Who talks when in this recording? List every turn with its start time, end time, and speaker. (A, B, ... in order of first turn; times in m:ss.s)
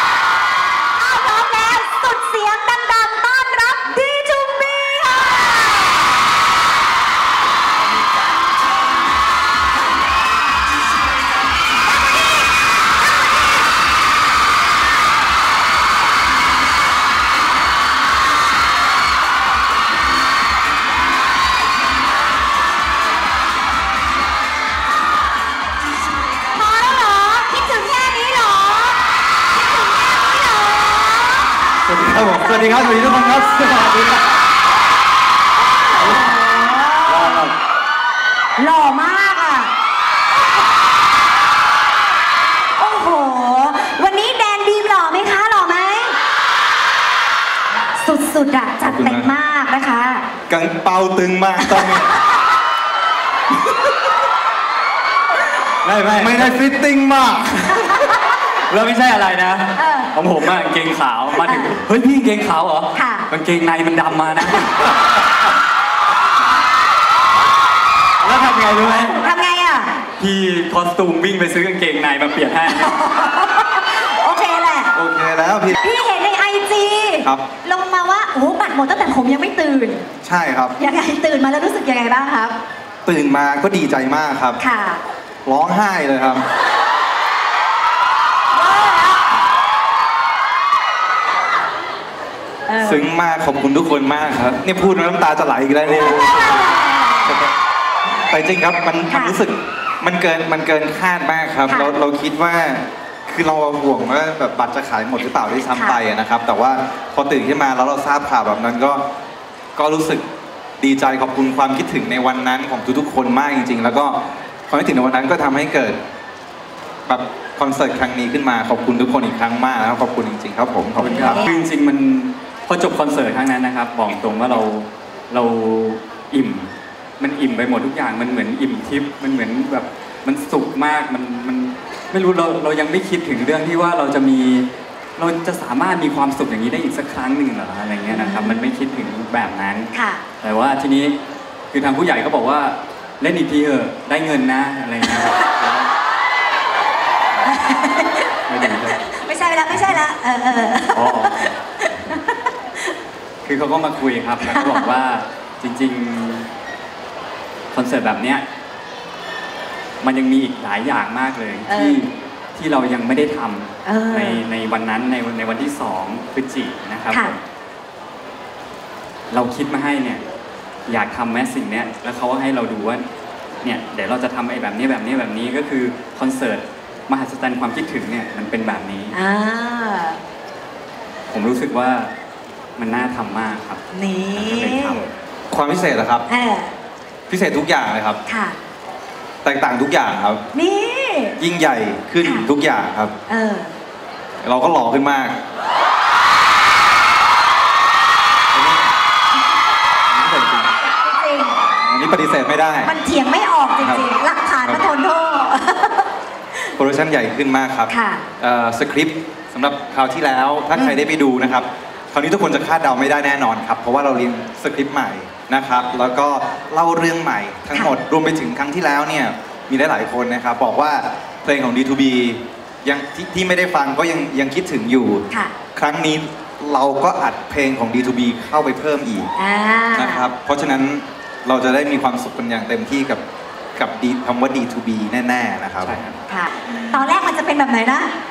0:01.0-0:06.3 A
0:26.5-0:31.7 A
0:31.8-0:34.4 B
0:32.4-0:33.8 A
0:35.7-0:37.4 A
0:36.0-0:36.4 B
0:37.1-0:37.5 B
0:38.6-0:39.7 A
0:42.8-0:46.2 A
0:48.0-0:50.3 A
0:48.8-0:49.3 B
0:50.5-0:52.1 B
0:51.7-0:52.1 A
0:55.8-0:56.6 C
0:56.1-0:58.0 B
0:58.7-1:04.8 C
0:59.7-1:00.1 A
1:01.4-1:01.7 A
1:02.9-1:03.3 A
1:08.2-1:09.2 C
1:09.1-1:10.0 A
1:10.2-1:12.9 C
1:12.7-1:14.9 A
1:14.9-1:15.8 B
1:15.7-1:20.1 A
1:20.2-1:20.8 B
1:20.8-1:22.6 A
1:23.0-1:24.6 B
1:24.6-1:25.0 A
1:25.4-1:26.4 B
1:28.5-1:29.2 A
1:32.7-1:33.1 A
1:32.8-1:36.6 B
1:36.2-1:37.4 A
1:37.3-1:37.5 B
1:38.1-1:49.1 B
1:39.1-1:39.4 A
1:41.7-1:41.9 A
1:45.7-1:46.0 A
1:49.8-1:50.2 B
1:50.8-1:56.0 B
1:57.1-2:01.4 B
2:01.0-2:21.2 C
2:01.1-2:01.6 A
2:18.1-2:18.6 A
2:19.9-2:20.2 A
2:21.7-2:25.9 C
2:27.4-2:28.3 A
2:28.5-2:29.0 C
2:29.0-2:32.9 A
2:30.9-2:31.6 C
2:33.4-2:36.5 C
2:34.4-2:34.9 A
2:37.7-2:38.5 C
2:40.0-2:47.4 C
2:41.7-2:42.0 A
2:43.8-2:44.4 A
2:49.3-2:50.2 C
2:50.9-2:53.1 C
2:53.6-2:59.2 C
2:59.1-3:00.2 A
3:01.3-3:02.1 C
3:02.8-3:03.8 C
3:03.9-3:05.1 A
3:04.3-3:05.1 C
3:05.5-3:06.3 B
3:06.3-3:06.7 A
3:07.3-3:08.2 B
3:08.3-3:08.6 A
3:09.4-3:10.5 B
3:10.5-3:11.4 A
3:11.4-3:13.1 B
3:13.3-3:13.7 A
3:14.4-3:15.4 B
3:18.5-3:18.9 B
3:20.1-3:20.7 B
3:20.8-3:21.7 A
3:21.8-3:22.9 B
3:22.8-3:26.1 A
3:23.8-3:24.1 B
3:26.8-3:49.3 B
3:27.9-3:28.2 A
3:45.3-3:45.6 A
3:49.4-3:50.3 A
3:49.9-3:53.2 B
3:53.8-3:55.9 B
3:55.8-3:56.2 C
3:56.3-3:58.1 A